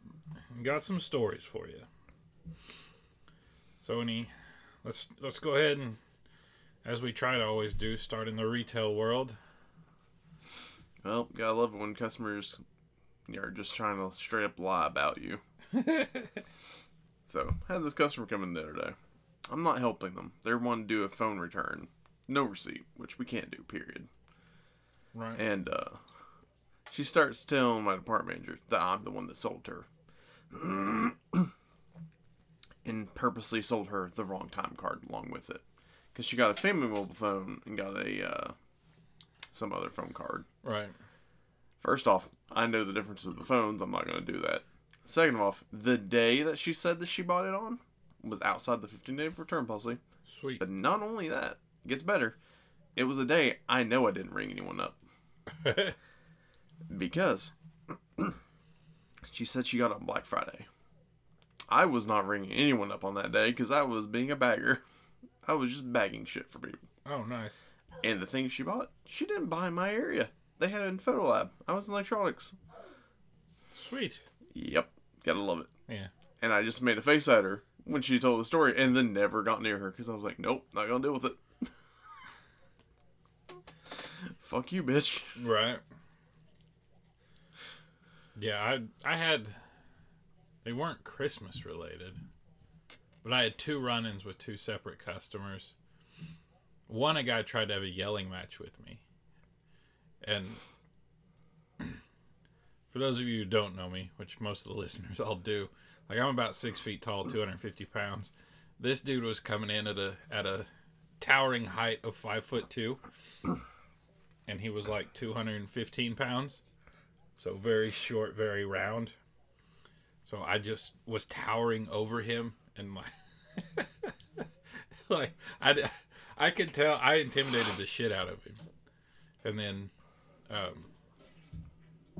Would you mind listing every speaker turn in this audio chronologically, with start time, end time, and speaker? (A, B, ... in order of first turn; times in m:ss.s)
0:00.5-0:01.9 A
0:03.8-0:04.3 A
0:04.8-0:06.0 A
0:06.8-0:09.4 A
0:11.0-0:12.6 B
0:13.3-0:15.4 B
0:15.7-0:16.3 A
0:17.3-0:24.1 B
0:25.1-0:25.4 A
0:25.4-0:26.0 B
0:26.9-0:29.9 B
0:30.5-0:31.5 B
0:32.8-0:35.6 B
0:36.2-0:38.6 B
0:39.5-0:40.5 B
0:40.6-0:40.9 A
0:41.8-0:50.0 B
0:50.3-0:50.6 A
0:50.6-0:52.4 B
0:53.0-0:55.0 B
0:55.6-0:56.0 A
0:56.9-0:58.4 B
0:59.2-1:00.7 B
1:01.7-1:04.8 B
1:05.4-1:06.8 B
1:07.1-1:07.5 A
1:08.0-1:12.6 B
1:13.7-1:14.2 A
1:14.5-1:15.7 B
1:16.4-1:21.8 B
1:24.2-1:25.4 B
1:25.4-1:25.8 A
1:28.4-1:29.6 A
1:30.6-1:32.2 A
1:33.2-1:35.8 A
1:36.9-1:39.0 A
1:40.2-1:40.6 A
1:42.9-1:50.7 A
1:51.2-1:53.0 A
1:54.5-1:56.6 A
1:57.4-1:59.2 A
2:00.2-2:04.4 A
2:05.1-2:08.6 A
2:09.4-2:09.9 A
2:10.5-2:10.9 A